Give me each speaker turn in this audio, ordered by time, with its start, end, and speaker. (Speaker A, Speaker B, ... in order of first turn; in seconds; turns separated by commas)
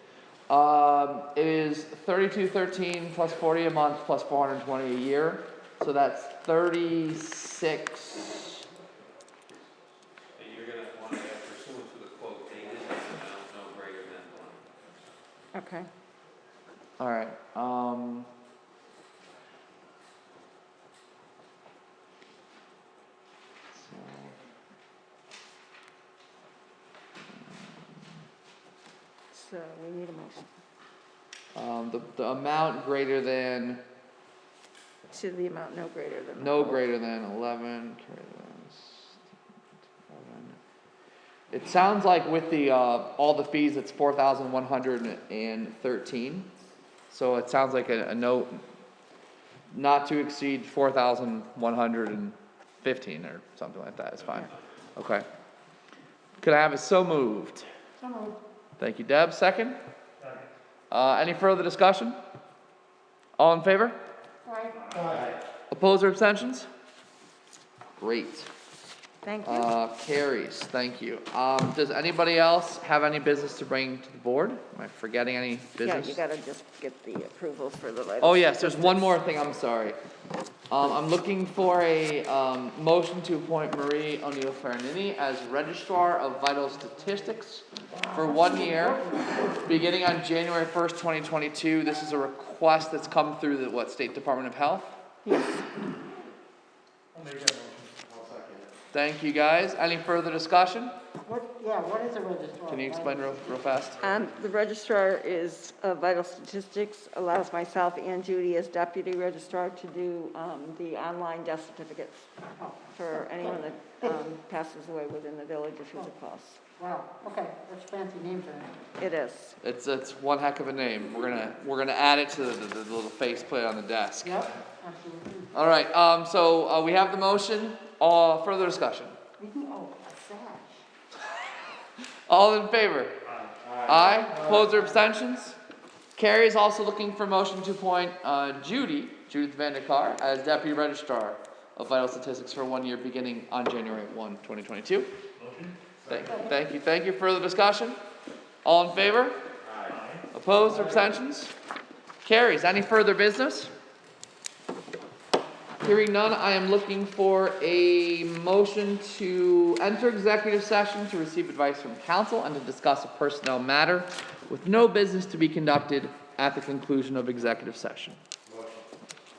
Speaker A: 0.5-8.6, Speaker B: 10.4-14.7, Speaker C: 15.5-15.9, Speaker A: 17.0-18.3, Speaker A: 23.7-24.3, Speaker A: 27.3-27.8, Speaker C: 29.3-30.5, Speaker A: 31.6-33.8, Speaker C: 35.1-36.8, Speaker A: 36.4-39.2, Speaker A: 40.1-40.6, Speaker A: 41.5-46.5, Speaker A: 47.1-48.6, Speaker A: 49.7-55.3, Speaker A: 56.4-57.7, Speaker D: 58.0-58.4, Speaker A: 58.8-59.8, Speaker E: 60.2-60.5, Speaker A: 60.9-62.2, Speaker A: 63.4-64.0, Speaker D: 64.5-65.0, Speaker E: 64.7-65.4, Speaker A: 65.7-66.7, Speaker A: 68.0-68.5, Speaker C: 69.2-69.7, Speaker A: 69.4-76.2, Speaker C: 75.8-79.1, Speaker A: 78.2-80.0, Speaker A: 80.7-89.0, Speaker D: 87.9-89.6, Speaker A: 89.6-95.0, Speaker C: 95.3-95.6, Speaker E: 97.1-98.1, Speaker B: 98.1-98.7, Speaker A: 98.9-100.9, Speaker D: 101.2-103.5, Speaker A: 102.7-104.0, Speaker C: 104.0-112.3, Speaker D: 112.6-114.2, Speaker C: 112.9-116.6, Speaker D: 116.8-118.8, Speaker C: 119.0-119.6, Speaker A: 119.6-124.5, Speaker D: 124.2-125.5, Speaker A: 125.5-129.2, Speaker D: 129.4-130.9, Speaker A: 132.3-133.2, Speaker E: 133.2-133.6, Speaker A: 133.8-135.6, Speaker A: 136.2-145.1, Speaker E: 145.4-145.9, Speaker A: 146.1-148.0, Speaker A: 148.6-149.4, Speaker E: 149.8-150.3, Speaker A: 150.3-151.5, Speaker A: 152.2-153.7, Speaker A: 155.8-168.2